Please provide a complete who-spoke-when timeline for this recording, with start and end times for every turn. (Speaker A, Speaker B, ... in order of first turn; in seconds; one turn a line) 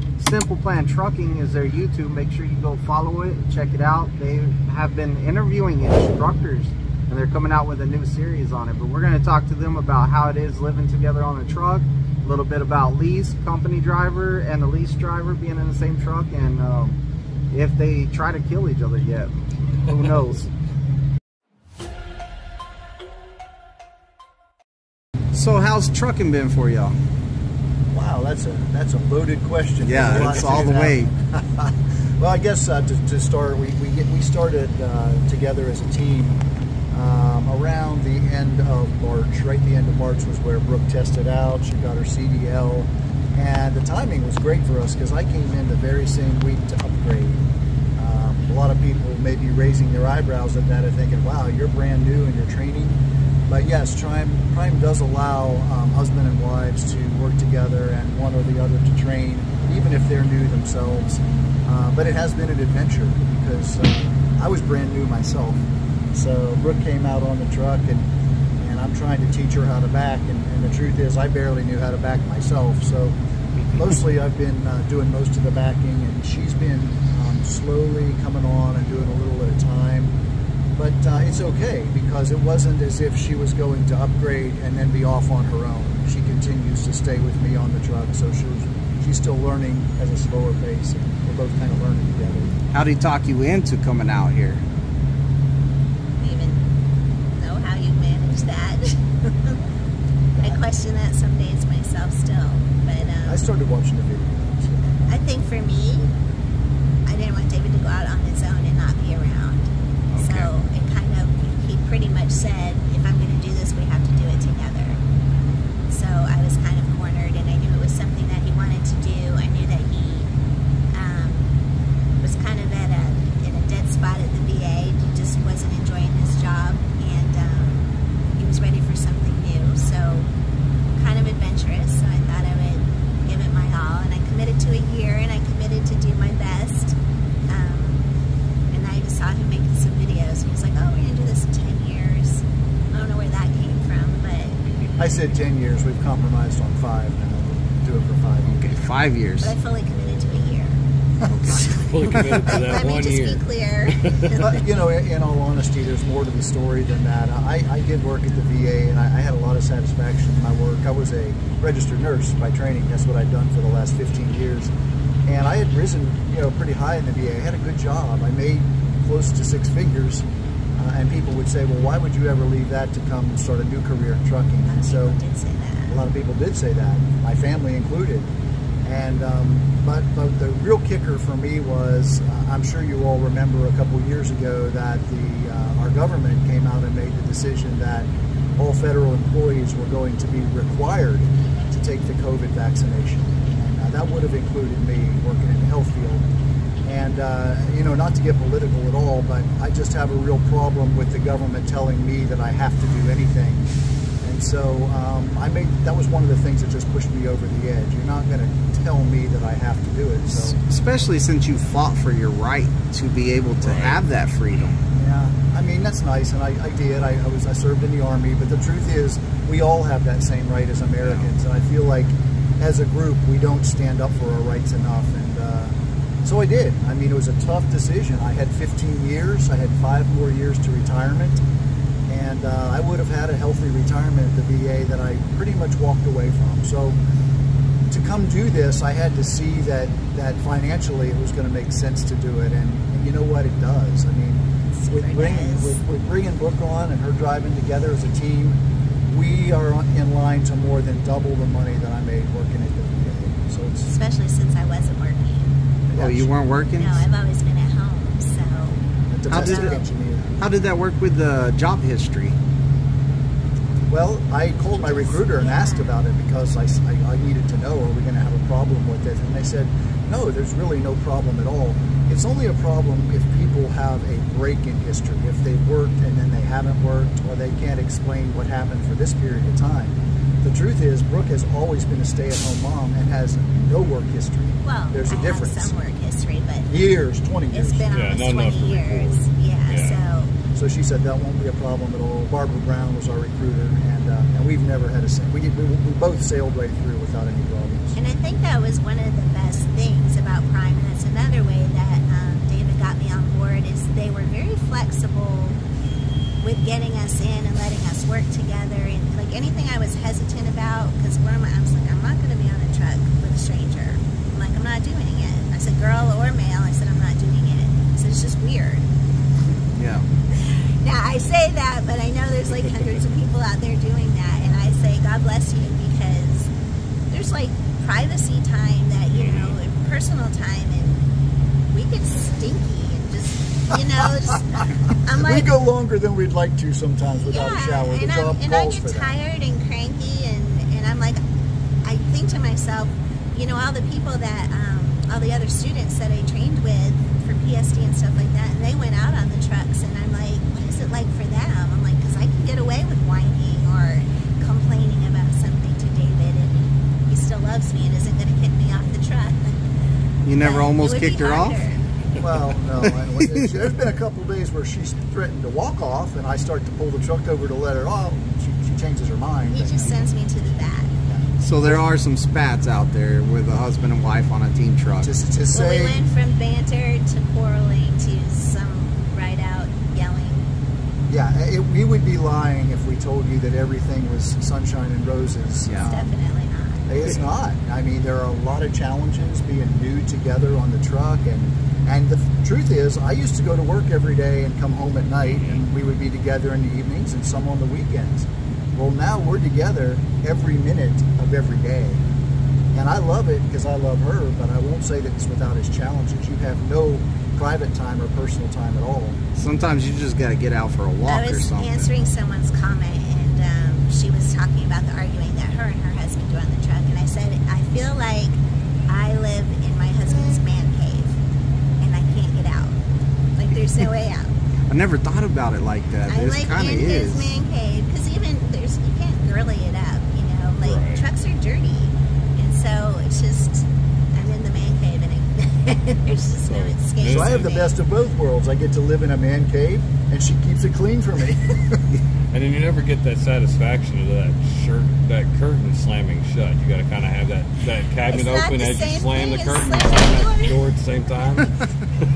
Speaker A: 0.2-17.0
Speaker A: 17.5-20.5
Speaker A: 25.3-26.9
Speaker B: 27.9-36.4
Speaker A: 29.8-31.1
Speaker B: 36.9-47.4
Speaker B: 48.0-68.1
Speaker B: 68.6-73.2
Speaker B: 73.7-80.1
Speaker B: 80.8-92.5
Speaker A: 92.7-94.6
Speaker C: 96.2-96.7
Speaker C: 97.4-99.6
Speaker C: 100.4-103.4
Speaker B: 103.0-105.1
Speaker C: 105.1-106.1
Speaker C: 107.1-109.7
Speaker A: 110.1-110.5
Speaker C: 110.2-115.0
Speaker C: 115.9-120.3
Speaker C: 120.9-121.5
Speaker C: 122.2-130.3
Speaker C: 130.9-137.0
Speaker C: 137.5-138.1
Speaker C: 138.7-144.6
Speaker B: 145.0-148.6
Speaker A: 148.5-149.5
Speaker C: 149.4-150.8
Speaker A: 151.2-152.4
Speaker C: 151.5-154.6
Speaker D: 151.5-154.2
Speaker B: 154.3-164.7
Speaker B: 165.2-170.2
Speaker B: 170.8-175.2
Speaker C: 174.7-176.0
Speaker B: 175.9-178.3
Speaker B: 178.8-196.2
Speaker B: 196.8-203.7
Speaker B: 204.2-210.6
Speaker A: 210.6-214.8
Speaker D: 213.6-214.0
Speaker B: 214.9-231.4
Speaker B: 232.1-237.0
Speaker B: 237.9-253.9
Speaker C: 244.8-245.8
Speaker C: 253.9-255.5
Speaker B: 255.9-256.3
Speaker A: 255.9-257.0
Speaker C: 256.8-259.8
Speaker B: 259.1-260.4
Speaker A: 259.3-259.8
Speaker A: 260.4-262.4
Speaker B: 263.9-285.7
Speaker C: 264.7-265.9
Speaker C: 284.6-286.7
Speaker B: 286.7-287.8
Speaker C: 287.5-290.3
Speaker D: 287.9-290.0
Speaker B: 290.6-298.0
Speaker C: 297.9-305.6
Speaker C: 306.4-318.9
Speaker A: 319.8-320.1
Speaker C: 320.4-326.5
Speaker C: 327.1-331.0
Speaker D: 329.1-329.6
Speaker C: 331.7-335.5
Speaker B: 333.7-339.1
Speaker C: 337.2-341.2
Speaker C: 341.8-359.7
Speaker A: 360.2-361.6
Speaker C: 360.3-361.8
Speaker B: 362.2-370.0
Speaker A: 362.8-363.5
Speaker C: 369.5-370.9
Speaker B: 371.1-371.8
Speaker A: 371.4-375.1
Speaker B: 375.0-376.0
Speaker C: 375.5-380.5
Speaker B: 381.1-386.1
Speaker C: 385.8-386.9
Speaker B: 386.9-402.0
Speaker B: 402.7-409.2
Speaker A: 409.4-411.9
Speaker C: 411.1-421.2
Speaker C: 421.8-422.8
Speaker C: 423.4-424.3
Speaker A: 424.7-427.3
Speaker C: 426.1-437.7
Speaker D: 430.6-431.0
Speaker D: 436.5-437.5
Speaker B: 437.1-441.8
Speaker D: 442.3-451.6
Speaker C: 448.1-450.6